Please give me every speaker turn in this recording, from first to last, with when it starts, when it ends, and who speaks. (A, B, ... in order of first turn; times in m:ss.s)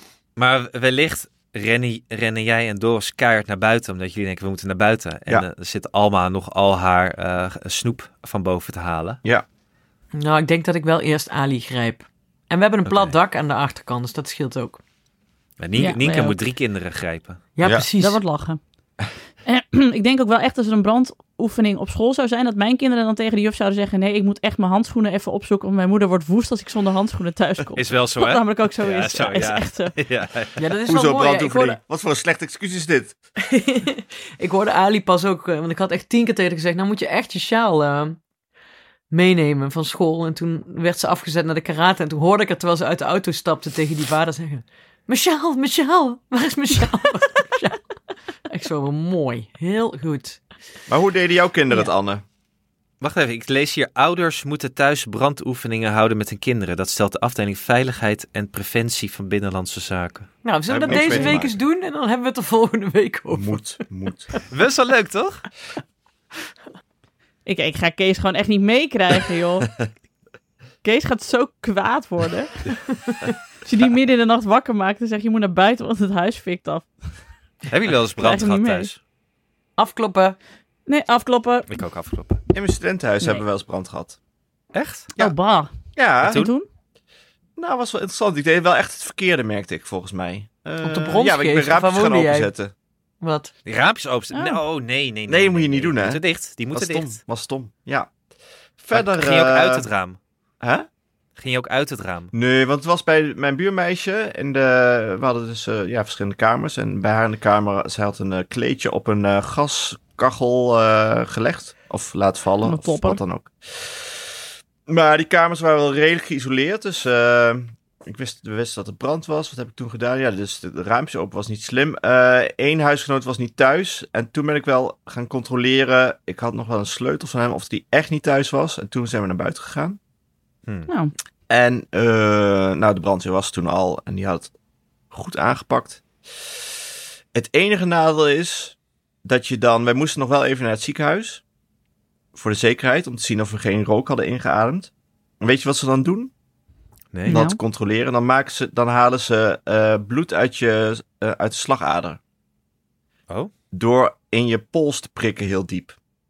0:00.4-0:09.2 A
0:10.1-0:14.8 B
0:12.8-0:13.1 A
0:15.6-0:17.4 A
0:15.8-0:16.4 C
0:17.6-0:18.2 B
0:18.0-0:18.6 C
0:19.4-0:29.9 C
0:27.8-0:30.6 A
0:30.6-0:31.8 B
0:30.8-0:33.2 D
0:33.4-0:38.2 B
0:39.1-0:47.8 B
0:48.5-0:50.4 B
0:50.9-0:52.2 D
0:53.0-1:00.4 A
1:00.4-1:03.6 B
1:00.7-1:01.6 D
1:00.9-1:01.4 A
1:03.3-1:04.3 D
1:04.5-1:05.4 A
1:07.4-1:09.7 C
1:10.8-1:12.6 C
1:13.6-1:16.9 C
1:17.7-1:19.0 A
1:18.2-1:18.9 C
1:19.8-1:20.4 B
1:20.9-1:21.7 C
1:21.7-1:22.4 A
1:22.5-1:24.2 D
1:24.7-1:25.1 A
1:25.2-1:26.6 C
1:25.9-1:26.4 D
1:26.2-1:26.5 A
1:27.6-1:32.7 D
1:30.8-1:32.5 B
1:33.2-1:33.5 B
1:33.6-1:37.2 A
1:34.3-1:34.6 C
1:35.3-1:38.1 D
1:38.8-1:39.9 D
1:38.9-1:40.2 A
1:40.6-1:40.9 D
1:41.4-1:42.3 A
1:42.3-1:54.3 D
1:52.6-1:53.2 C
1:54.9-2:10.0 D
2:11.5-2:14.5 D
2:15.1-2:16.0 D
2:17.3-2:21.4 D
2:22.3-2:26.3 D
2:27.1-2:27.4 A
2:27.3-2:27.6 C
2:27.3-2:32.2 D
2:33.7-2:36.0 D